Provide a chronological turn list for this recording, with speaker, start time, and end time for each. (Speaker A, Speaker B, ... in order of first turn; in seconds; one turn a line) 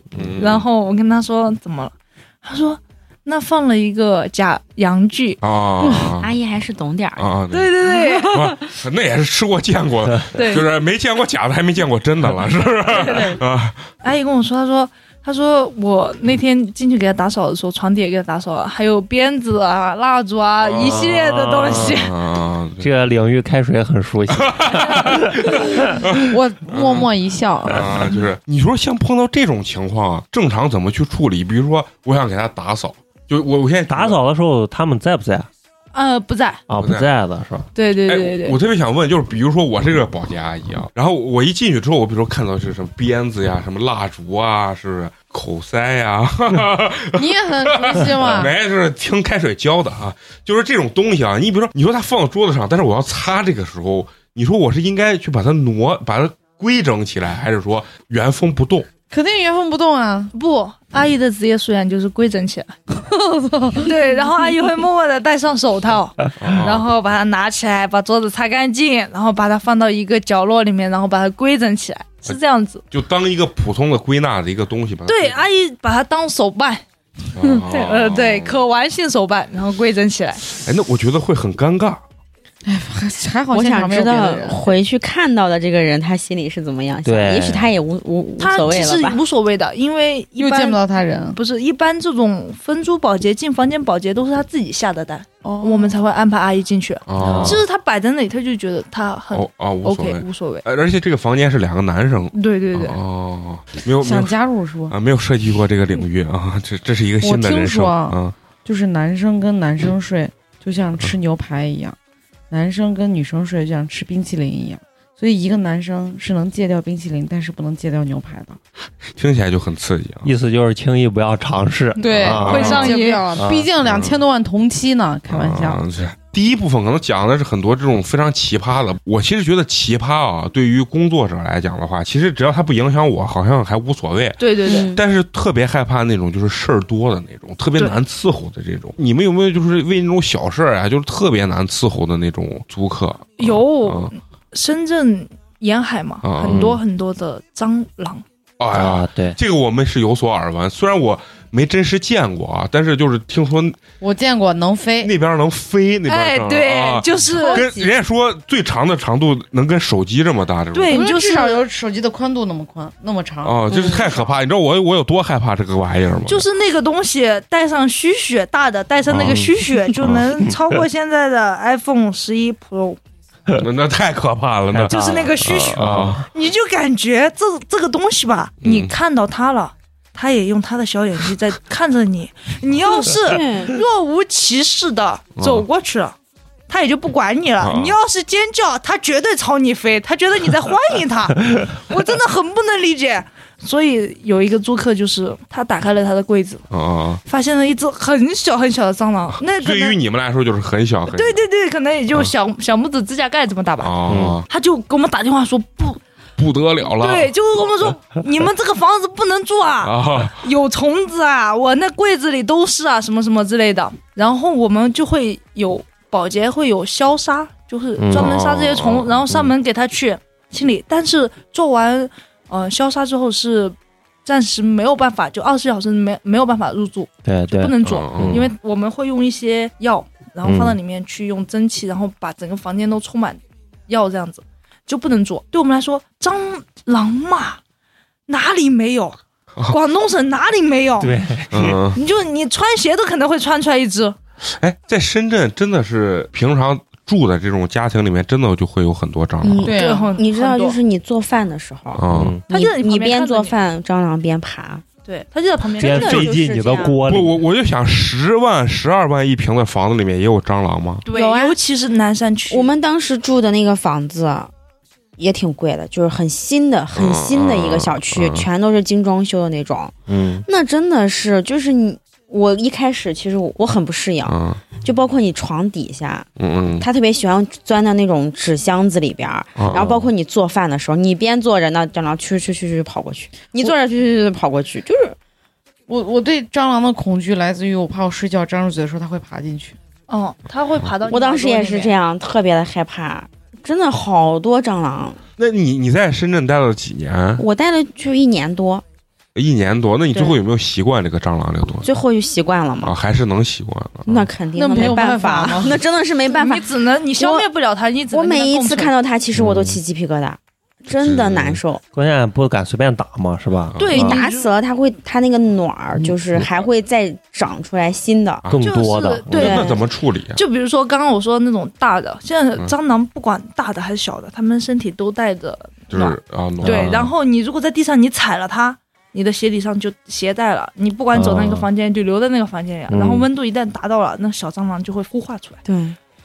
Speaker A: 0.1-0.6
Speaker B: 0.4-1.9
Speaker B: 2.4-5.4
Speaker A: 5.4-6.3
Speaker C: 6.2-7.3
Speaker A: 7.2-13.8
Speaker B: 7.5-8.3
Speaker C: 7.8-8.6
Speaker B: 10.3-10.7
Speaker B: 13.0-13.3
Speaker B: 14.0-22.1
Speaker A: 20.6-21.1
Speaker D: 20.8-22.0
Speaker A: 21.7-22.9
Speaker D: 22.8-25.3
Speaker A: 24.3-27.1
Speaker E: 26.3-27.9
Speaker A: 27.7-34.2
Speaker D: 33.9-35.5
Speaker B: 35.9-36.6
Speaker D: 36.7-37.7
Speaker A: 36.8-37.1
Speaker B: 37.7-38.6
Speaker A: 38.1-58.9
Speaker E: 47.1-48.5
Speaker E: 59.1-60.3
Speaker B: 60.3-62.7
Speaker E: 63.0-64.0
Speaker B: 63.8-72.8
Speaker A: 66.4-66.8
Speaker A: 72.9-75.4
Speaker B: 75.1-76.8
Speaker A: 77.3-78.6
Speaker B: 77.4-80.4
Speaker A: 80.6-82.0
Speaker E: 82.7-84.7
Speaker C: 83.5-89.2
Speaker D: 87.0-87.7
Speaker B: 88.4-90.8
Speaker E: 90.4-91.4
Speaker B: 91.3-100.6
Speaker E: 95.4-96.0
Speaker A: 97.1-97.6
Speaker D: 97.2-97.6
Speaker A: 99.3-104.3
Speaker B: 102.3-103.0
Speaker E: 104.0-105.0
Speaker A: 104.9-108.3
Speaker E: 107.2-112.0
Speaker E: 112.5-118.6
Speaker A: 119.2-120.3
Speaker D: 120.2-123.7
Speaker E: 122.0-125.8
Speaker B: 122.0-123.2
Speaker A: 122.2-123.0
Speaker A: 123.8-124.2
Speaker A: 125.3-144.1
Speaker B: 134.4-134.9
Speaker C: 134.7-135.0
Speaker B: 143.4-148.2
Speaker A: 146.2-146.8
Speaker D: 146.5-146.7
Speaker A: 148.6-153.8
Speaker D: 148.7-149.4
Speaker E: 154.0-155.1
Speaker A: 155.0-161.1
Speaker B: 156.1-157.7
Speaker E: 157.4-157.9
Speaker B: 160.7-161.6
Speaker E: 160.9-164.0
Speaker A: 163.4-166.4
Speaker C: 163.7-164.0
Speaker B: 166.2-173.0
Speaker A: 169.1-169.5
Speaker D: 169.2-169.5
Speaker A: 173.6-176.2
Speaker D: 174.7-176.2
Speaker B: 174.9-186.1
Speaker A: 178.6-178.9
Speaker C: 183.1-183.8
Speaker A: 185.4-185.6
Speaker B: 186.7-196.7
Speaker A: 187.6-187.9
Speaker A: 196.7-197.2
Speaker B: 197.2-200.0
Speaker A: 199.5-201.4
Speaker B: 201.1-206.0
Speaker A: 203.8-204.4
Speaker D: 204.1-204.4
Speaker A: 206.4-207.3
Speaker B: 206.8-237.6
Speaker A: 209.8-210.4
Speaker D: 218.0-218.3
Speaker A: 218.1-219.2
Speaker D: 227.2-228.5
Speaker A: 227.8-228.4
Speaker D: 230.4-230.8
Speaker B: 238.3-241.2
Speaker D: 241.0-241.8
Speaker A: 241.5-242.0
Speaker B: 241.9-244.2
Speaker A: 244.5-249.8
Speaker C: 249.4-254.8
Speaker E: 249.6-250.2
Speaker B: 249.7-250.8
Speaker A: 251.9-252.3
Speaker D: 252.1-252.4
Speaker B: 252.5-253.6
Speaker B: 255.0-256.2
Speaker D: 255.8-257.4
Speaker C: 255.8-257.0
Speaker A: 256.0-256.3
Speaker A: 257.1-261.0
Speaker B: 261.0-262.7
Speaker C: 261.1-261.6
Speaker C: 262.5-264.5
Speaker C: 265.2-269.9
Speaker A: 266.9-268.5
Speaker D: 270.1-270.4
Speaker C: 270.4-285.1
Speaker A: 274.2-274.6
Speaker A: 276.4-276.9
Speaker A: 279.6-279.9
Speaker D: 279.7-280.1
Speaker E: 285.9-289.8
Speaker B: 290.1-291.9
Speaker C: 291.1-295.2
Speaker A: 295.4-297.4
Speaker C: 297.4-298.8
Speaker A: 299.3-301.9
Speaker C: 300.1-300.4
Speaker C: 301.8-302.9
Speaker A: 302.8-304.3
Speaker C: 304.1-307.5
Speaker E: 304.5-305.8
Speaker B: 306.3-308.9
Speaker C: 308.1-311.8
Speaker D: 309.3-309.8
Speaker A: 311.0-311.6
Speaker D: 311.9-314.1
Speaker A: 313.7-314.1
Speaker B: 313.8-314.5
Speaker C: 313.9-318.4
Speaker D: 316.0-316.5
Speaker A: 318.4-318.7
Speaker D: 318.5-319.6
Speaker B: 318.6-335.6
Speaker A: 319.3-320.4
Speaker C: 319.3-319.8
Speaker A: 325.9-327.1
Speaker D: 326.6-327.1
Speaker D: 331.1-331.7
Speaker D: 332.9-333.2
Speaker A: 333.0-333.2
Speaker C: 335.6-336.0